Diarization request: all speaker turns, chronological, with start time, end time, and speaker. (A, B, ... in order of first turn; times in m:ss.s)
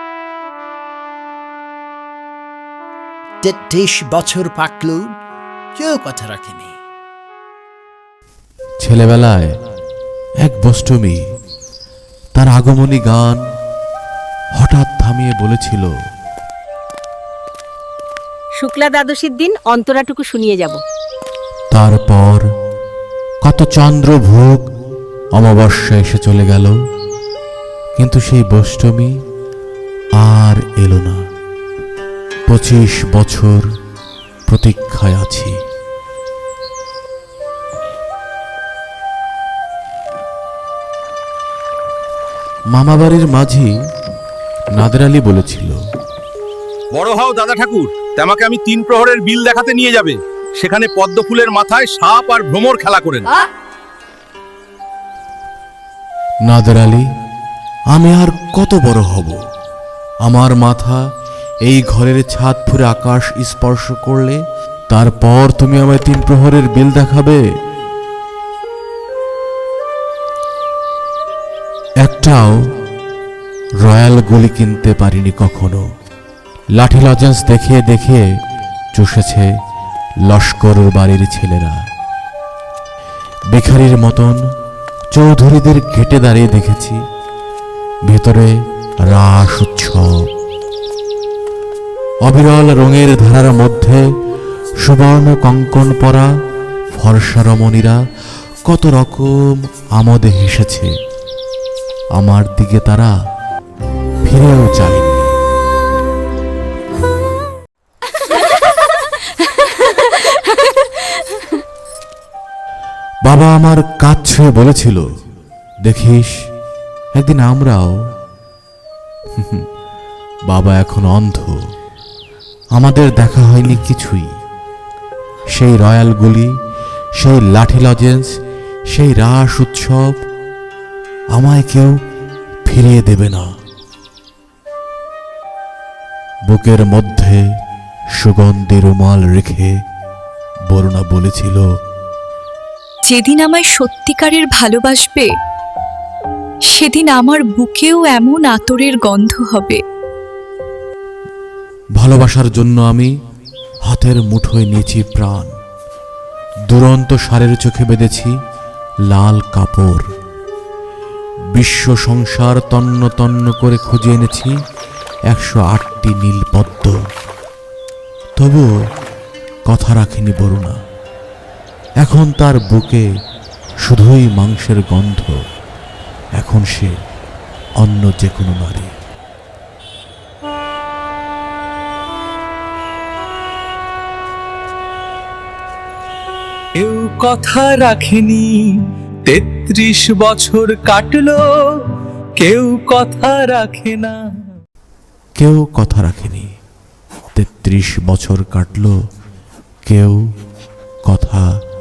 0:03.4-0:05.2 A
0:05.8-0:06.8 A
0:08.8-0:09.5 B
0:10.4-0:11.2 B
0:12.3-0:13.4 B
0:14.6-0:15.9 B
0:18.6-0:20.8 C
0:21.7-0:22.4 B
0:23.4-0:24.6 B
0:25.3-0:26.7 B
0:28.0-0:29.1 B
0:30.2-0:31.2 B
0:32.5-0:33.7 B
0:34.5-0:35.5 B
0:42.7-0:43.7 B
0:44.7-0:45.8 B
0:46.9-0:53.2 D
0:56.4-0:57.0 B
0:57.9-0:59.4 B
1:00.2-1:01.0 B
1:01.6-1:07.4 B
1:12.0-1:12.6 B
1:13.8-1:15.8 B
1:16.7-1:18.2 B
1:18.9-1:19.5 B
1:20.2-1:21.8 B
1:23.5-1:24.4 B
1:25.1-1:27.0 B
1:28.0-1:28.5 B
1:29.0-1:30.2 B
1:32.2-1:34.0 B
1:34.8-1:36.3 B
1:36.9-1:38.0 B
1:38.6-1:39.3 B
1:39.9-1:40.9 B
1:42.2-1:43.1 B
1:44.2-1:45.3 B
1:53.2-1:55.0 B
1:55.8-1:56.3 B
1:57.1-1:58.0 B
1:59.4-1:59.6 B
2:00.5-2:01.6 B
2:02.7-2:04.3 B
2:05.5-2:06.5 B
2:07.2-2:08.3 B
2:08.9-2:10.2 B
2:11.3-2:11.9 B
2:12.6-2:13.5 B
2:16.5-2:17.4 B
2:18.2-2:19.7 B
2:20.7-2:21.6 B
2:23.0-2:25.3 E
2:26.7-2:29.8 E
2:32.0-2:33.1 B
2:33.9-2:35.5 B
2:36.7-2:38.3 B
2:39.1-2:40.0 B
2:41.5-2:44.5 B
2:45.3-2:47.0 B
2:48.4-2:48.7 B
2:49.6-2:50.8 B
2:52.0-2:53.0 B
2:53.8-2:55.4 B
2:56.4-2:57.0 B
2:57.8-2:58.9 B
3:06.8-3:14.3 F
3:15.4-3:16.5 B
3:17.3-3:18.9 B
3:19.8-3:20.2 B
3:21.0-3:21.5 B